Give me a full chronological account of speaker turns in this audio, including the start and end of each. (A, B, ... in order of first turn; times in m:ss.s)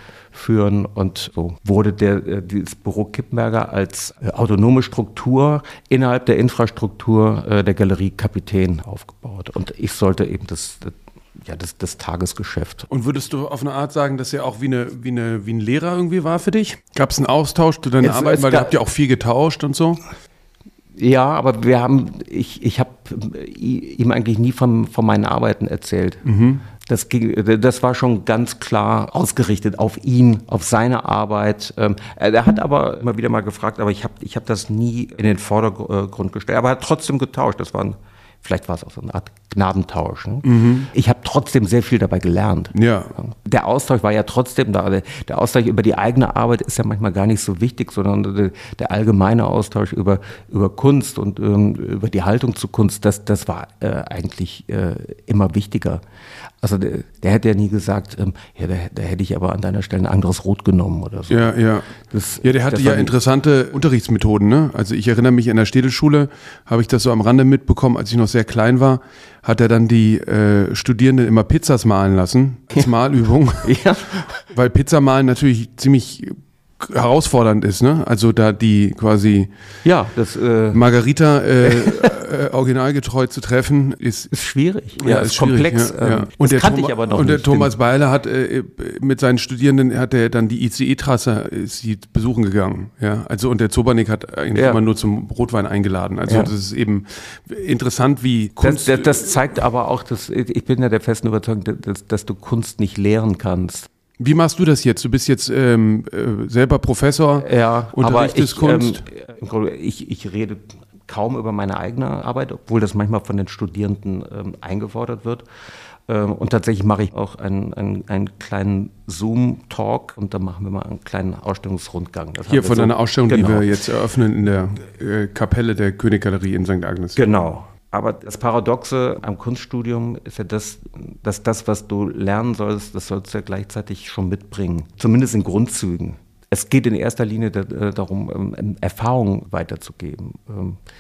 0:00.3-0:12.9 A
0:12.9-0:20.0 B
0:18.0-0:18.8 A
0:21.0-0:26.2 A
0:26.2-0:26.6 B
0:26.8-0:56.0 A
0:40.4-0:40.9 B
0:42.7-0:43.1 B
0:56.6-1:03.1 A
1:01.3-1:13.8 B
1:13.6-1:14.4 A
1:14.5-1:19.5 B
1:19.8-1:20.8 A
1:20.7-1:24.3 B
1:21.6-1:22.1 A
1:24.3-1:27.7 A
1:25.0-1:39.4 B
1:34.5-1:34.8 A
1:38.6-1:43.9 A
1:44.2-1:49.0 B
1:47.4-1:55.4 A
1:56.1-2:03.6 A
2:02.5-2:07.2 B
2:07.2-2:20.8 A